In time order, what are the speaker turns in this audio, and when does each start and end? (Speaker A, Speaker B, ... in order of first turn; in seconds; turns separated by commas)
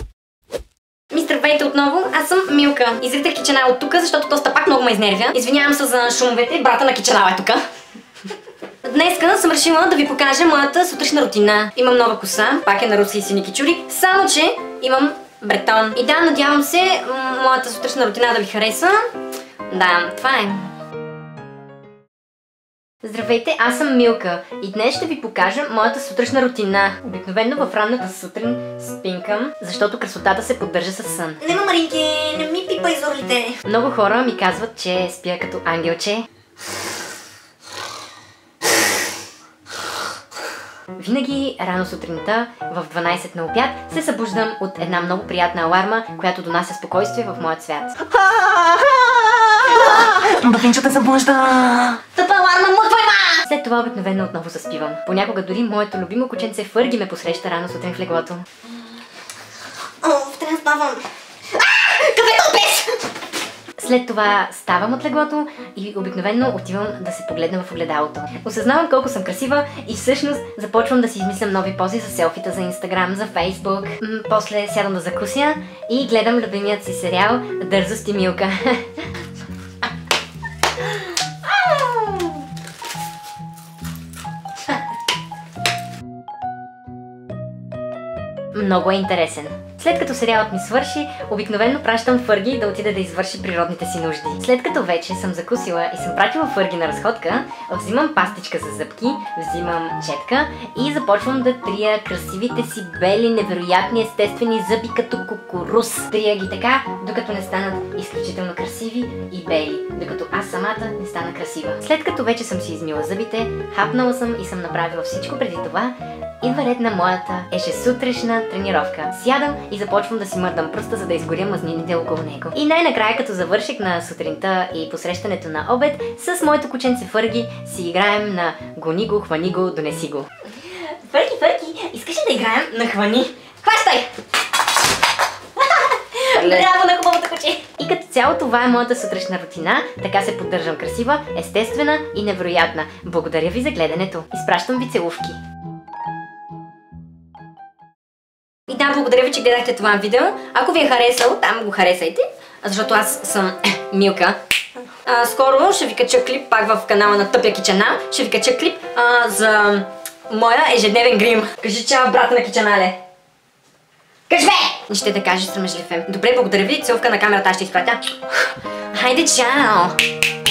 Speaker A: 1.1-7.6, Speaker A: 8.9-19.0, Speaker A: 19.7-20.6, Speaker A: 23.0-31.4, Speaker B: 31.4-33.6, Speaker A: 33.6-36.2, Speaker A: 41.0-48.0, Speaker B: 48.2-53.4, Speaker A: 53.4-58.5, Speaker B: 60.0-61.0, Speaker B: 61.6-63.0, Speaker A: 63.8-79.1, Speaker A: 81.5-81.9, Speaker A: 88.5-134.1, Speaker A: 136.1-145.4, Speaker A: 148.7-154.4, Speaker A: 155.1-162.9, Speaker A: 164.3-168.0, Speaker A: 168.9-169.9